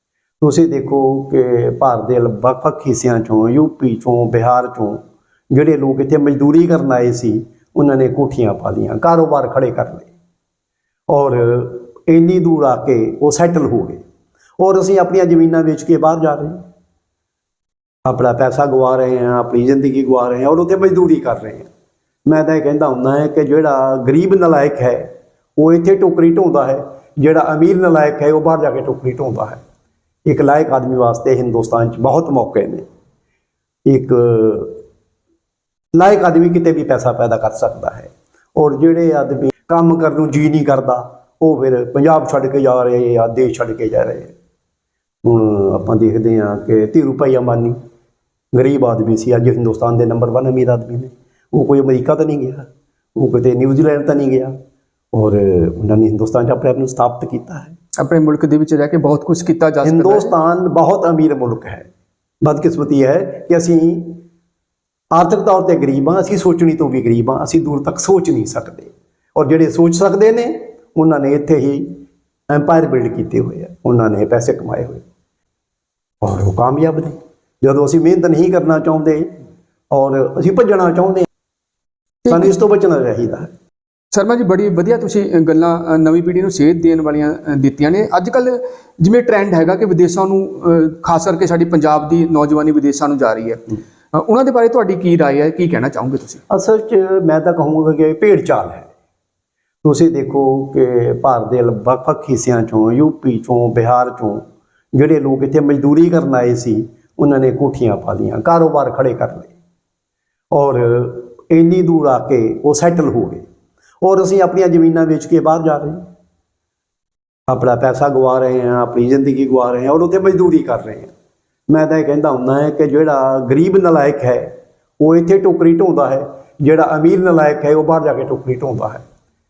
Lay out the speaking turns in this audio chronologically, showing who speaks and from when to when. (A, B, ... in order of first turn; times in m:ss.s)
0:00.4-0:10.1 A
0:11.1-0:14.0 A
0:14.6-0:16.6 A
0:18.0-0:21.7 A
0:22.3-0:29.6 A
0:30.2-0:32.8 A
0:33.8-0:34.8 A
0:35.9-0:44.3 A
0:45.2-0:47.8 A
0:48.5-0:54.6 A
0:55.1-0:57.8 A
0:58.0-1:00.3 B
0:59.8-1:01.9 A
1:02.4-1:04.2 A
1:05.1-1:15.0 A
1:16.2-1:19.3 A
1:19.9-1:21.3 A
1:22.2-1:22.5 B
1:22.3-1:23.5 A
1:24.1-1:33.6 B
1:34.1-1:36.4 B
1:36.5-1:38.9 A
1:39.8-1:49.5 A
1:50.5-1:53.4 A
1:54.0-1:56.0 A
1:57.5-2:01.1 A
2:01.7-2:09.0 A